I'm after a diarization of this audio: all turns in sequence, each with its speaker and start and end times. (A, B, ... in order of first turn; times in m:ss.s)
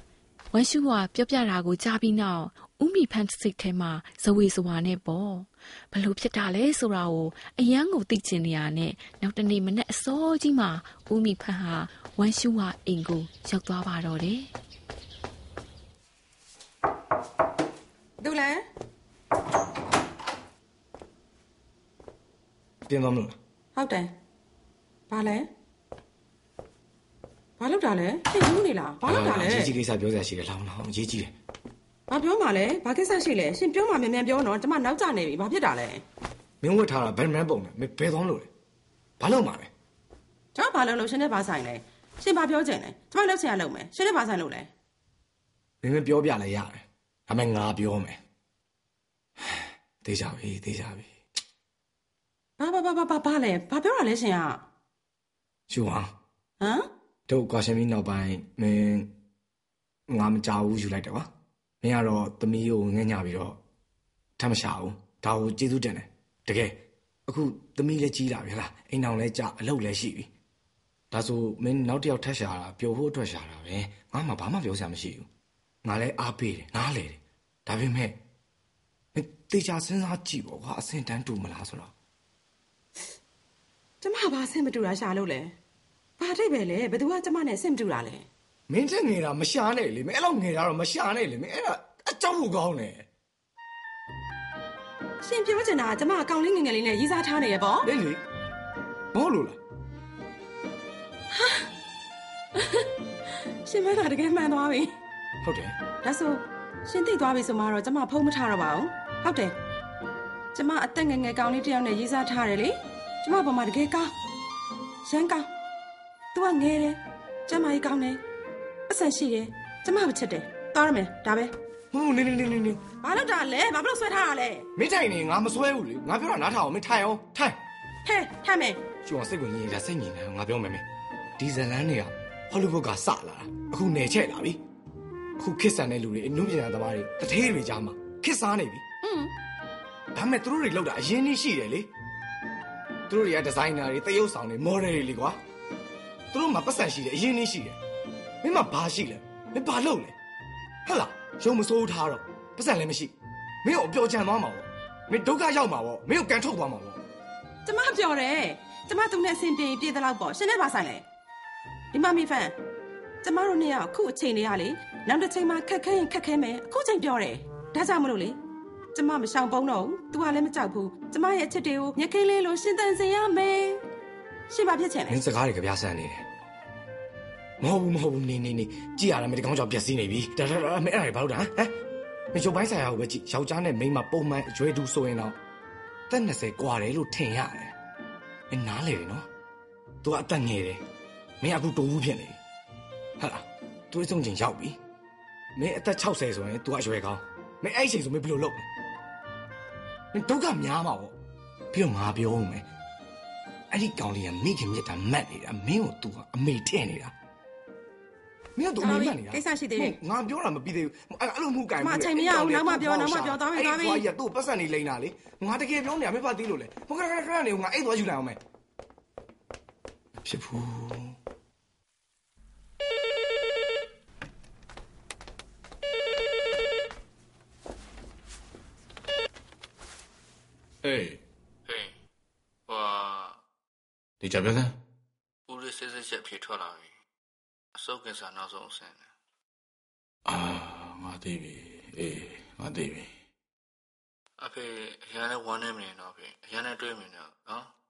0:00.5-0:14.5 A
0:18.2-0:18.6 B
0:22.9-0:23.4 C
0:23.8-0:24.1 B
0:25.1-0:25.5 B
0:27.6-0:29.7 B
0:29.0-0:31.4 C
0:32.1-0:36.0 B
0:36.6-0:38.5 C
0:39.2-0:39.7 C
0:40.6-0:44.7 B
0:45.8-0:48.2 C
0:49.4-0:51.2 C
0:52.6-0:54.6 B
0:55.7-0:56.1 C
0:56.6-0:56.8 B
0:57.3-0:59.1 C
1:00.1-1:01.3 C
1:01.8-1:03.6 C
1:04.4-1:10.3 C
1:11.1-1:15.3 C
1:15.8-1:18.2 C
1:19.1-1:21.9 C
1:24.0-1:25.6 B
1:26.2-1:28.3 B
1:28.7-1:33.1 C
1:35.2-1:37.9 B
1:37.8-1:38.2 C
1:39.1-1:39.6 C
1:41.3-1:41.7 B
1:42.6-1:42.9 B
1:43.7-1:44.9 B
1:45.4-1:45.8 C
1:46.0-1:49.6 B
1:50.5-1:54.1 B
1:55.0-1:55.5 B
1:56.3-1:58.2 B
1:58.9-2:01.5 B
2:01.9-2:02.8 C
2:03.0-2:04.7 B
2:04.8-2:07.6 C
2:08.0-2:08.8 B
2:09.0-2:10.8 C
2:11.4-2:14.6 C
2:15.4-2:18.8 C
2:19.0-2:19.3 B
2:20.1-2:21.9 C
2:23.1-2:25.4 C
2:26.3-2:27.8 C
2:28.4-2:30.2 C
2:30.8-2:37.0 C
2:37.6-2:41.0 B
2:41.9-2:42.5 B
2:43.2-2:48.4 B
2:49.0-2:53.8 B
2:54.5-2:55.2 B
2:55.1-2:56.3 C
2:57.6-3:01.7 C
3:02.3-3:05.4 C
3:06.1-3:07.8 C
3:08.5-3:09.3 C
3:10.0-3:10.8 C
3:11.4-3:12.4 C
3:13.2-3:14.8 C
3:15.6-3:18.7 C
3:20.1-3:21.2 C
3:21.7-3:22.7 C
3:23.7-3:27.1 C
3:28.6-3:38.4 C
3:28.8-3:30.0 B
3:31.8-3:34.0 B
3:40.2-3:41.2 C
3:50.8-3:51.2 D
3:51.7-3:52.0 E
3:52.7-3:53.4 E
3:54.2-3:54.8 D
3:55.5-3:56.9 E
3:57.8-3:59.1 E
4:00.2-4:03.1 D
4:04.4-4:07.7 E